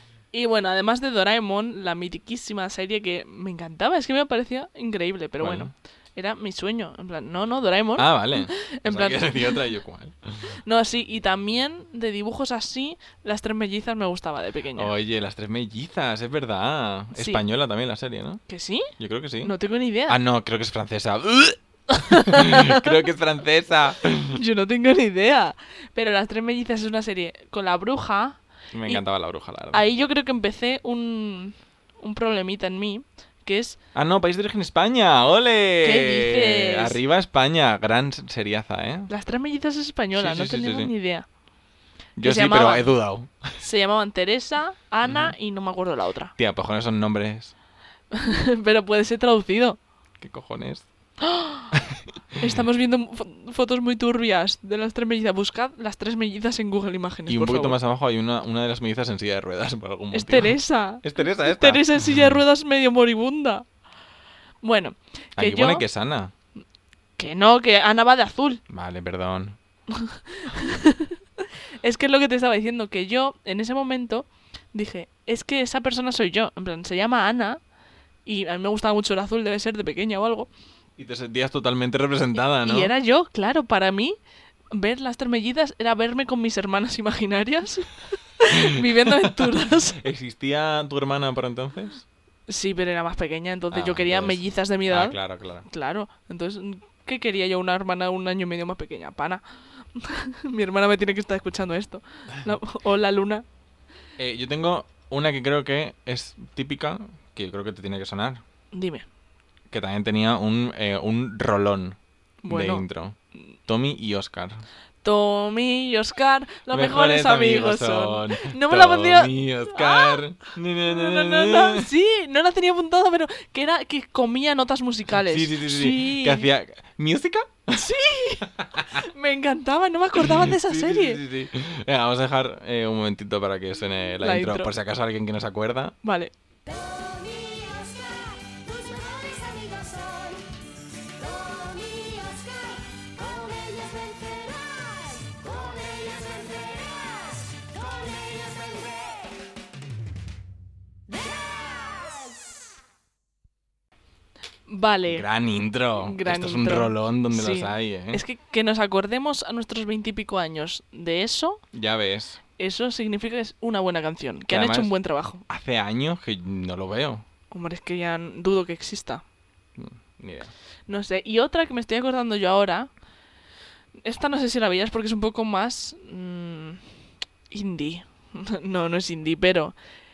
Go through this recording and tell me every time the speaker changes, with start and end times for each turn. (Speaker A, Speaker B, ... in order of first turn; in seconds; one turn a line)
Speaker A: 0.3-9.6
Speaker B: 5.4-5.7
Speaker B: 8.0-10.6
Speaker A: 10.7-14.9
Speaker B: 14.8-18.4
Speaker A: 17.1-17.4
Speaker A: 18.5-20.2
Speaker B: 19.0-19.5
Speaker B: 20.1-24.4
Speaker A: 21.9-22.9
Speaker A: 24.3-29.0
Speaker B: 28.7-29.8
Speaker A: 29.7-33.8
Speaker B: 33.9-39.1
Speaker A: 35.8-37.0
Speaker A: 39.1-41.3
Speaker B: 40.1-40.9
Speaker B: 42.2-43.6
Speaker A: 42.2-42.9
Speaker A: 43.6-46.3
Speaker B: 45.0-45.4
Speaker B: 46.4-47.5
Speaker A: 48.1-49.8
Speaker B: 50.2-50.9
Speaker A: 51.2-51.7
Speaker B: 51.7-52.6
Speaker A: 52.4-57.8
Speaker B: 57.3-62.4
Speaker A: 60.1-63.6
Speaker A: 64.6-65.8
Speaker B: 65.4-66.3
Speaker A: 67.2-68.6
Speaker B: 68.7-69.6
Speaker A: 69.9-77.6
Speaker A: 78.2-80.5
Speaker B: 81.0-82.9
Speaker A: 82.6-84.2
Speaker A: 84.7-90.0
Speaker B: 88.9-92.0
Speaker A: 92.5-103.5
Speaker B: 93.7-95.7
Speaker B: 104.2-108.4
Speaker A: 108.7-109.1
Speaker B: 109.7-114.7
Speaker A: 112.4-112.8
Speaker A: 115.0-126.5
Speaker B: 116.7-121.9
Speaker B: 125.2-127.8
Speaker A: 127.7-131.2
Speaker B: 128.6-129.0
Speaker B: 130.2-136.0
Speaker A: 134.2-134.7
Speaker A: 136.0-136.3
Speaker C: 136.7-140.5
Speaker C: 141.2-149.3
Speaker C: 151.1-152.4
Speaker A: 154.7-155.3
Speaker B: 155.1-158.2
Speaker A: 156.0-161.6
Speaker B: 161.7-162.4
Speaker A: 162.6-165.4
Speaker B: 164.5-164.9
Speaker B: 165.5-167.2
Speaker A: 167.5-169.2
Speaker B: 169.8-170.5
Speaker A: 170.9-172.9
Speaker A: 174.0-176.8
Speaker A: 177.5-179.8